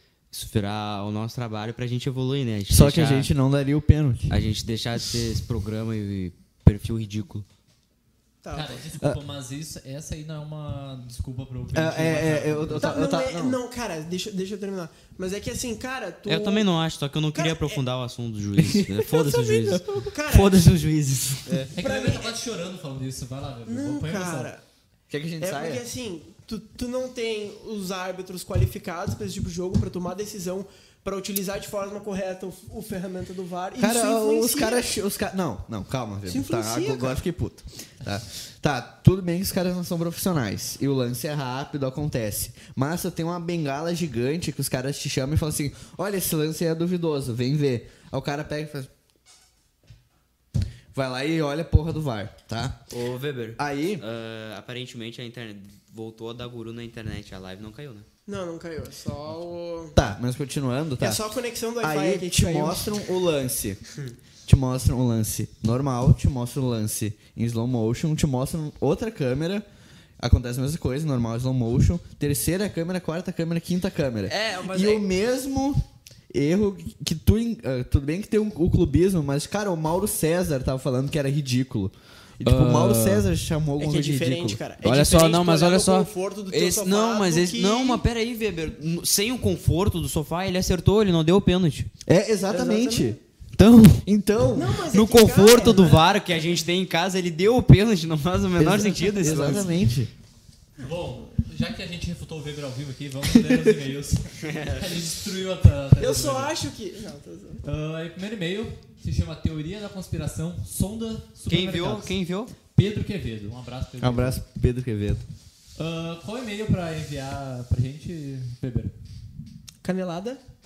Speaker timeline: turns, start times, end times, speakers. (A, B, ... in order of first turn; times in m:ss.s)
0:00.3-0:03.3 A
0:02.7-0:04.4 B
0:04.3-0:07.4 A
0:08.4-0:08.7 C
0:08.5-0:13.0 D
0:11.7-0:13.6 B
0:12.8-0:16.7 C
0:16.3-0:21.7 A
0:17.3-0:17.8 C
0:18.6-0:20.1 B
0:19.3-0:20.6 C
0:21.5-0:21.7 B
0:21.7-0:24.5 D
0:21.8-0:22.3 C
0:23.7-0:24.6 C
0:25.1-0:25.8 B
0:25.4-0:34.9 C
0:33.8-0:48.9 B
0:36.3-0:37.2 C
0:50.9-0:52.8 B
0:52.9-0:58.1 A
0:53.6-0:54.0 B
0:58.3-1:00.0 C
1:00.0-1:01.2 B
1:01.0-1:03.0 C
1:01.8-1:03.8 B
1:04.5-1:09.6 B
1:10.2-1:24.6 B
1:14.4-1:15.0 C
1:22.4-1:23.2 A
1:23.8-1:28.0 C
1:24.8-1:31.9 A
1:32.1-1:33.2 B
1:32.5-1:33.2 C
1:33.6-1:34.0 A
1:34.1-1:34.8 B
1:34.5-1:36.1 C
1:34.9-1:39.8 A
1:38.6-1:40.1 B
1:40.8-1:46.6 D
1:44.5-1:44.8 A
1:46.0-1:47.6 C
1:47.6-1:52.2 D
1:51.5-1:52.5 A
1:52.7-1:54.4 D
1:54.0-1:55.2 B
1:55.8-1:58.9 D
1:59.8-2:00.4 C